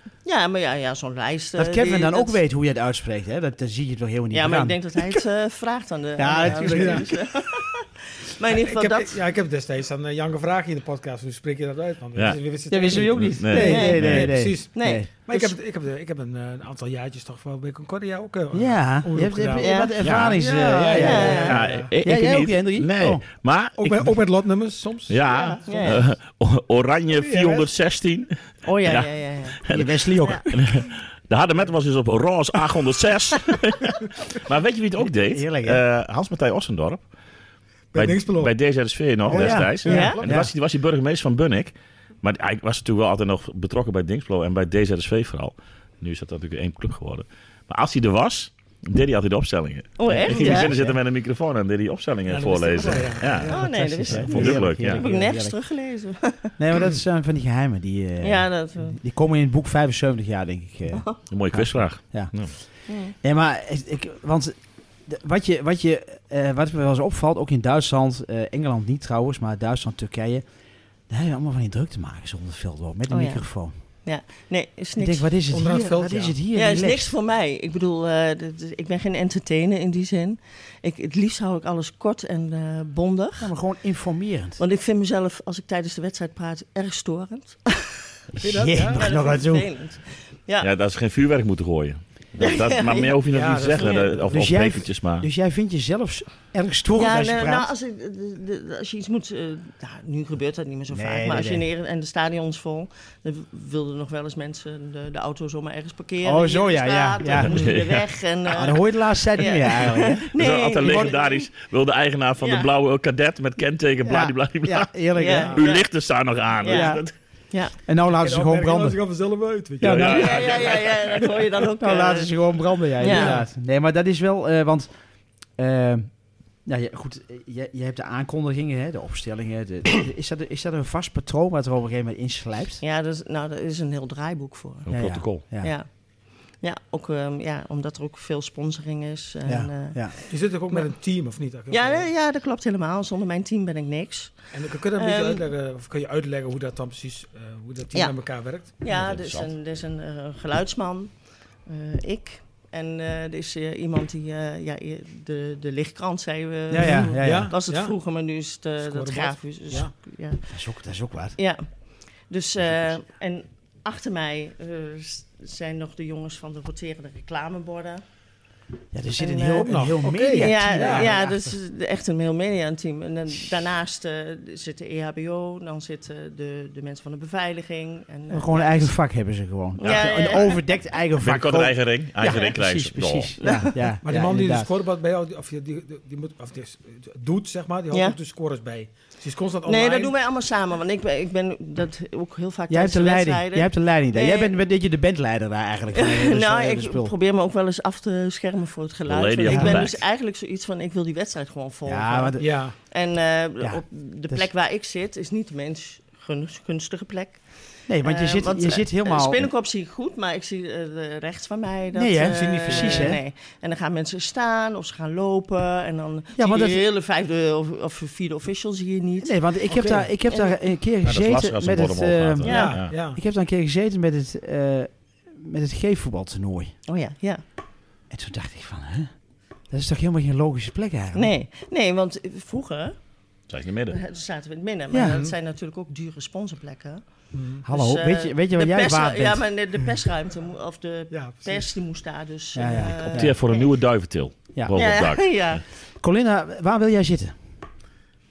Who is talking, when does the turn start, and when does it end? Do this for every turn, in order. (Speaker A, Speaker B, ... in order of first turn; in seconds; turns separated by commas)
Speaker A: 0.2-2.4, Speaker B: 1.6-5.2, Speaker A: 4.3-9.2, Speaker B: 6.2-7.3, Speaker C: 6.4-7.1, Speaker C: 8.5-21.9, Speaker D: 12.2-14.3, Speaker B: 12.7-15.1, Speaker A: 13.5-14.0, Speaker A: 14.5-15.6, Speaker B: 18.5-23.2, Speaker A: 19.6-19.9, Speaker D: 20.0-20.3, Speaker A: 20.9-21.6, Speaker D: 21.4-24.1, Speaker C: 23.8-25.9, Speaker D: 25.1-37.0, Speaker A: 25.3-26.0, Speaker C: 27.1-27.7, Speaker A: 28.6-29.6, Speaker B: 29.7-30.6, Speaker B: 35.2-35.8, Speaker C: 37.9-38.5, Speaker D: 37.9-53.5, Speaker C: 39.3-40.4, Speaker B: 39.3-40.5, Speaker A: 39.8-40.2, Speaker A: 50.0-50.7, Speaker B: 50.4-50.9, Speaker C: 52.3-54.6, Speaker A: 52.8-56.5, Speaker B: 53.5-55.6, Speaker D: 54.1-55.0, Speaker B: 56.6-62.3, Speaker A: 58.2-59.0, Speaker A: 60.9-61.2, Speaker D: 61.3-62.5, Speaker A: 62.9-63.1, Speaker B: 63.2-70.4, Speaker B: 71.1-73.7, Speaker A: 73.1-73.4, Speaker A: 74.0-75.3, Speaker B: 75.0-77.1, Speaker C: 75.5-76.4, Speaker A: 76.5-83.5, Speaker B: 83.4-84.6, Speaker A: 84.6-88.0, Speaker C: 88.4-89.1, Speaker B: 88.5-89.7, Speaker A: 88.9-90.7, Speaker D: 90.6-95.3, Speaker A: 92.4-93.2, Speaker C: 93.3-94.5, Speaker A: 93.7-94.1, Speaker B: 94.3-97.7, Speaker A: 96.9-111.5, Speaker B: 100.9-101.6, Speaker B: 106.2-107.6, Speaker D: 107.4-108.0, Speaker B: 108.4-111.2, Speaker D: 110.3-117.1, Speaker A: 112.4-112.7, Speaker B: 114.0-115.6, Speaker A: 115.2-116.0, Speaker C: 115.3-115.6, Speaker A: 116.6-117.7, Speaker B: 116.7-117.0, Speaker B: 117.8-119.0, Speaker C: 118.2-121.5, Speaker B: 119.8-120.4, Speaker D: 119.8-120.8, Speaker A: 120.1-123.4, Speaker B: 121.8-124.9, Speaker C: 123.0-123.4, Speaker B: 125.5-126.1, Speaker B: 126.6-132.8, Speaker A: 132.8-134.9, Speaker D: 134.9-135.4, Speaker B: 134.9-135.7, Speaker A: 135.6-135.9, Speaker A: 136.5-140.9, Speaker B: 139.4-140.1, Speaker C: 140.3-142.1, Speaker A: 141.7-144.4, Speaker C: 144.5-148.8, Speaker A: 144.9-145.4, Speaker A: 147.9-151.1, Speaker D: 148.9-149.5, Speaker A: 151.6-160.4, Speaker B: 156.7-157.5, Speaker C: 156.8-158.0, Speaker C: 158.8-159.9, Speaker B: 160.5-161.4, Speaker A: 161.3-161.6, Speaker A: 162.2-168.0, Speaker B: 168.9-171.6, Speaker A: 169.2-179.0, Speaker C: 169.6-171.1, Speaker B: 178.3-184.7, Speaker A: 179.8-180.6, Speaker D: 179.8-180.5, Speaker D: 181.2-183.3, Speaker A: 183.4-183.8, Speaker C: 184.0-190.1, Speaker A: 187.9-188.2, Speaker A: 189.6-194.5, Speaker B: 192.7-197.1, Speaker A: 195.9-220.6, Speaker D: 199.1-200.0, Speaker B: 199.5-199.8, Speaker B: 201.8-202.7, Speaker C: 202.4-202.8, Speaker B: 203.6-204.5, Speaker B: 207.9-209.5, Speaker B: 211.9-213.2, Speaker C: 212.7-213.1, Speaker B: 216.3-216.9, Speaker B: 219.2-226.7, Speaker C: 219.8-220.0, Speaker D: 221.0-222.9, Speaker A: 222.4-222.8, Speaker C: 222.4-223.2, Speaker A: 226.8-227.4, Speaker B: 228.1-229.1, Speaker B: 229.7-231.3, Speaker A: 231.1-233.0, Speaker D: 233.5-234.0, Speaker A: 233.9-243.7, Speaker B: 234.9-235.2, Speaker C: 235.0-235.3, Speaker C: 237.3-237.6, Speaker B: 237.6-239.5, Speaker C: 241.1-241.7, Speaker B: 242.5-243.4, Speaker D: 243.1-245.6, Speaker A: 244.7-245.6, Speaker B: 246.0-247.4